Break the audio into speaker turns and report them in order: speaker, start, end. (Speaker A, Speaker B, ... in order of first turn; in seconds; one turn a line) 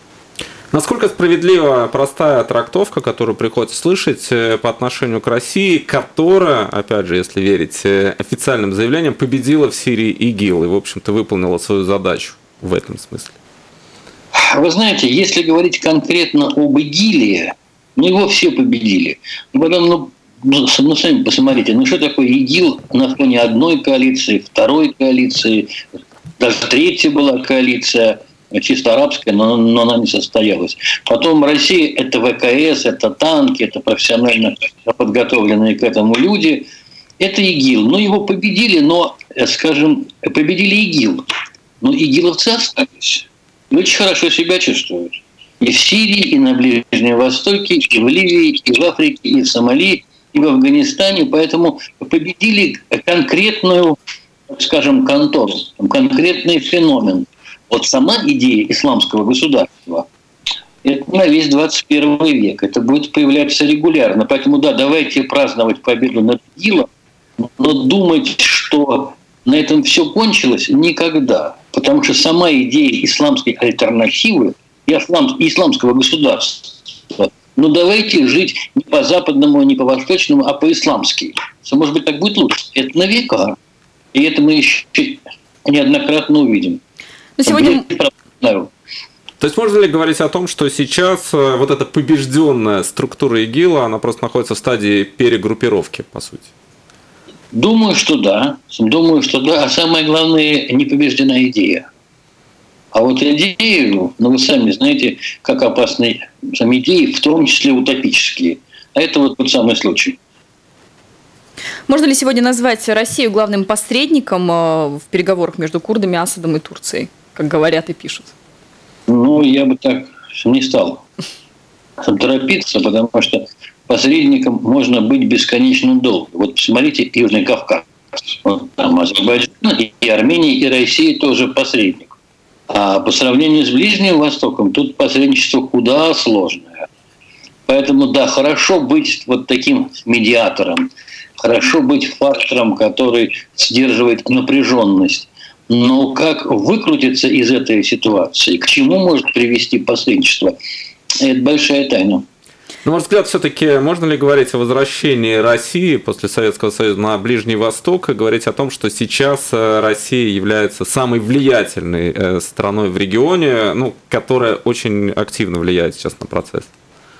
Speaker A: 0.7-13.3
Speaker B: 14.3-25.8
Speaker B: 26.4-36.7
Speaker B: 37.2-41.2
Speaker B: 41.8-54.0
Speaker B: 54.5-60.0
Speaker B: 60.8-66.9
Speaker B: 67.4-83.6
Speaker B: 84.1-86.8
Speaker C: 87.4-87.8
Speaker B: 87.5-88.7
Speaker A: 89.4-96.5
Speaker B: 97.5-101.9
Speaker B: 102.9-110.2
Speaker C: 111.9-118.3
Speaker B: 119.1-121.0
Speaker B: 122.0-132.1
Speaker B: 132.7-136.9
Speaker B: 137.7-150.6
Speaker B: 151.2-152.2
Speaker A: 152.8-166.7